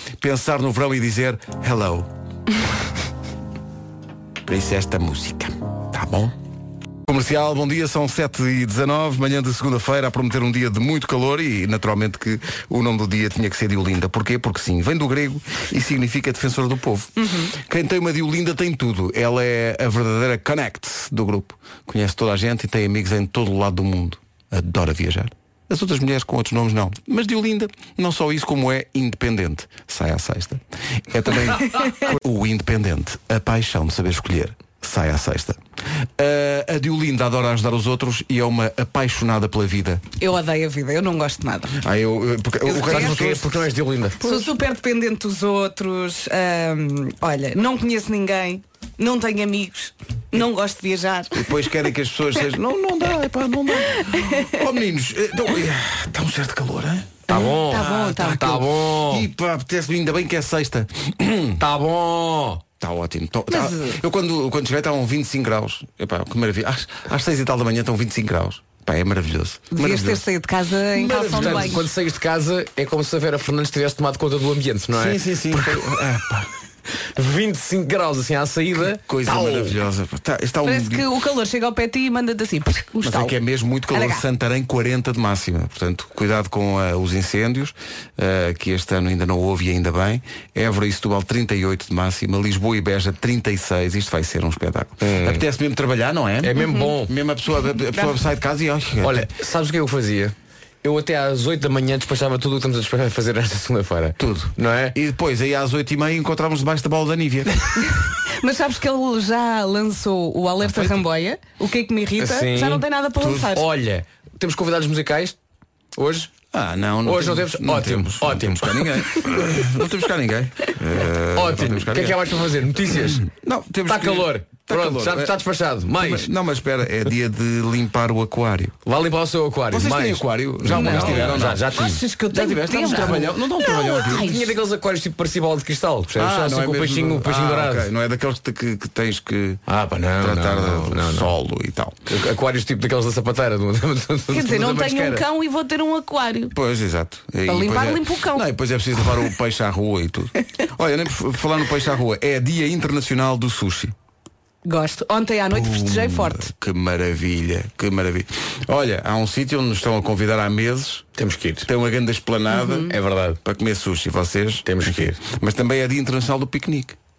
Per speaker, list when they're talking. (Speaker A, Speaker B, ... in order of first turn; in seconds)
Speaker A: 0.2-2.1, 4.5-6.3, 7.1-35.6, 36.2-40.0, 41.8-43.7, 51.3-61.7, 62.8-70.2, 70.9-71.9, 74.9-76.5, 79.0-81.0, 83.0-99.3, 104.2-107.8, 113.2-113.5, 116.5-122.2, 123.2-128.7, 129.7-131.7, 132.3-134.4, 136.1-139.6, 140.2-142.0, 146.5-153.9, 155.5-161.1, 161.7-167.0
Speaker B: 40.2-41.8, 42.6-43.4, 44.2-51.5, 57.3-58.6, 63.5-64.0, 69.7-71.9, 80.6-83.3, 83.9-84.2, 96.6-96.9, 108.2-113.7, 130.7-134.5, 144.3-146.5, 147.5-148.5, 154.6-156.5, 162.5-162.9
Speaker C: 42.8-44.3, 57.3-59.3, 61.6-62.6, 71.3-76.0, 77.2-79.8, 95.0-95.4, 96.4-97.1, 99.0-105.0, 110.7-111.0, 112.2-112.8, 113.5-115.4, 116.0-116.3, 117.0-119.3, 121.4-123.3, 123.9-126.3, 128.9-132.3, 132.8-137.9, 139.7-141.3, 142.1-145.2, 161.2-161.7, 162.9-163.4, 164.7-165.2